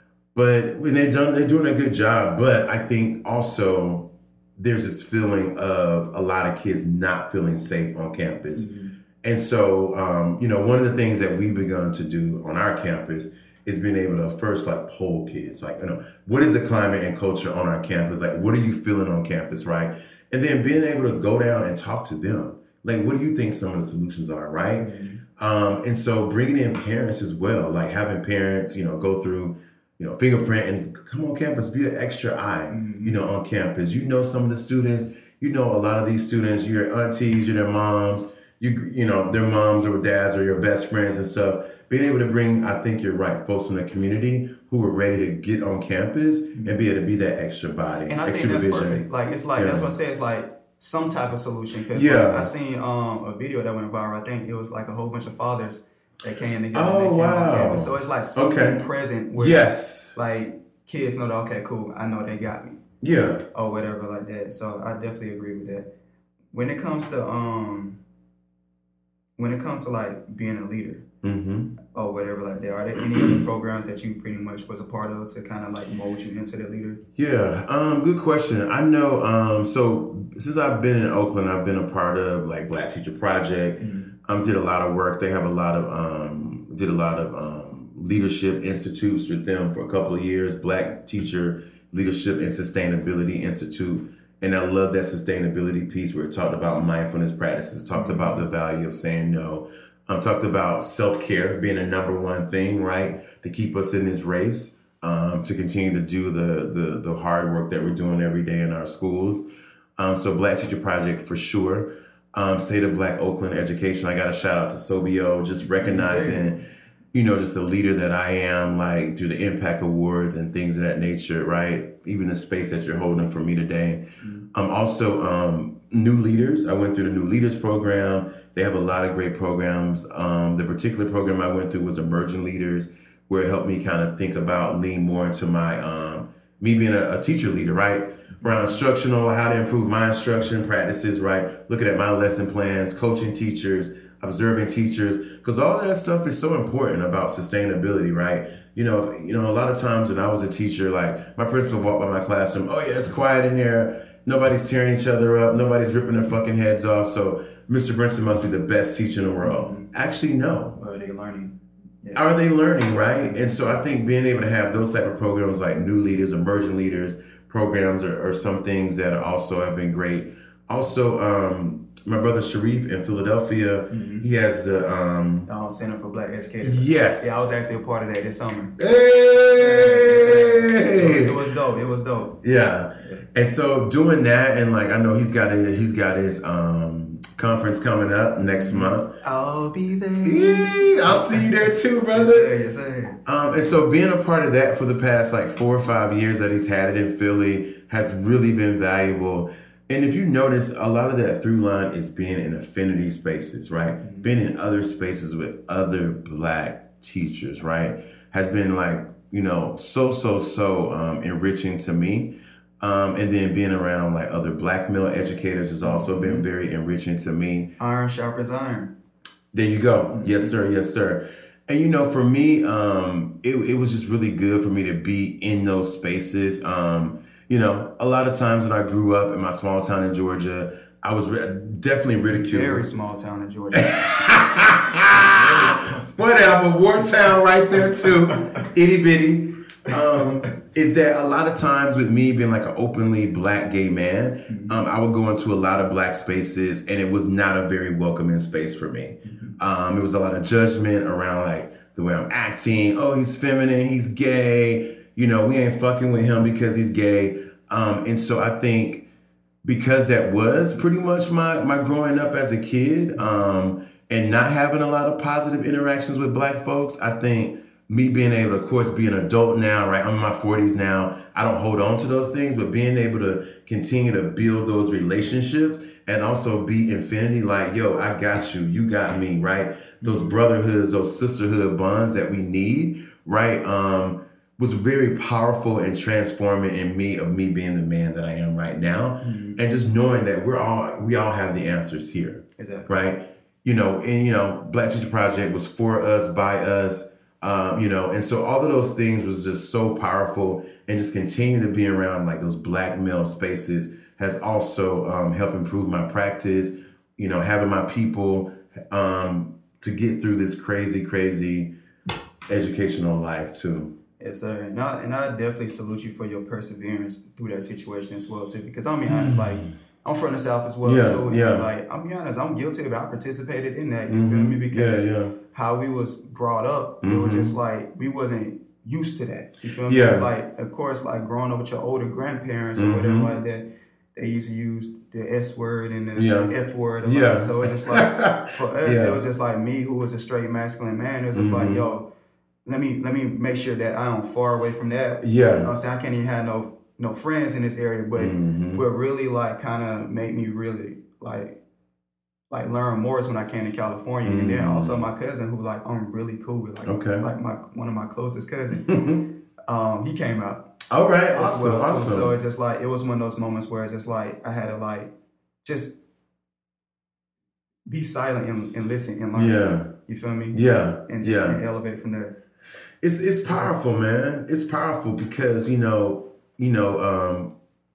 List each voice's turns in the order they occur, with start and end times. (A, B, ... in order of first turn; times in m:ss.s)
0:00.3-0:08.7 A
0:08.6-0:08.9 B
0:09.2-0:49.0 A
0:24.8-0:25.2 B
0:32.7-0:33.2 B
0:48.1-1:02.8 B
0:49.6-0:49.9 A
0:51.9-0:52.5 A
0:56.7-0:58.8 A
0:59.4-1:00.2 A
1:03.0-1:03.5 A
1:03.5-1:05.9 B
1:06.5-1:08.0 B
1:09.4-1:11.0 B
1:11.2-1:11.7 A
1:11.9-1:17.0 B
1:17.2-1:49.5 A
1:23.8-1:24.1 B
1:37.9-1:38.4 B
1:50.0-1:56.6 A
1:55.8-1:56.6 B
1:57.1-2:40.8 A
2:04.2-2:04.5 B
2:39.4-2:39.9 B
2:40.8-2:42.2 B
2:42.1-2:55.5 A
2:53.9-2:54.3 B
2:55.5-2:58.8 B
2:56.6-2:57.4 A
2:58.8-3:01.4 A
2:59.4-3:02.4 B
3:02.4-3:09.2 A
3:08.6-3:13.2 B
3:10.2-3:12.5 A
3:13.2-3:37.7 A
3:24.0-3:24.3 B
3:35.8-3:36.4 B
3:37.8-3:38.9 B
3:39.5-3:52.8 A
3:40.1-3:40.5 B
3:52.3-3:56.3 B
3:53.7-4:19.1 A
3:58.0-3:58.4 B
4:04.5-4:04.7 B
4:09.3-4:09.5 B
4:19.6-5:11.7 A
4:40.0-4:40.3 B
4:49.2-4:49.6 B
4:52.6-4:52.9 B
5:12.5-5:13.9 A
5:14.2-5:42.1 B
5:19.1-5:19.7 A
5:20.8-5:21.6 A
5:24.1-5:25.3 A
5:27.0-5:27.5 A
5:29.8-5:30.3 A
5:32.8-5:33.3 A
5:36.2-5:39.2 A
5:41.3-5:41.8 A
5:42.6-5:51.6 B
5:45.2-5:45.7 A
5:48.2-5:48.8 A
5:52.5-5:59.0 B
5:54.2-5:55.0 A
5:56.8-5:57.2 A
5:58.9-5:59.3 A
5:59.7-6:00.7 B
6:00.9-6:02.3 A
6:01.3-6:05.1 B
6:05.6-6:06.0 B
6:07.9-6:12.4 B
6:09.3-6:09.9 A
6:10.5-6:11.6 A
6:13.0-6:17.5 A
6:13.4-6:13.7 B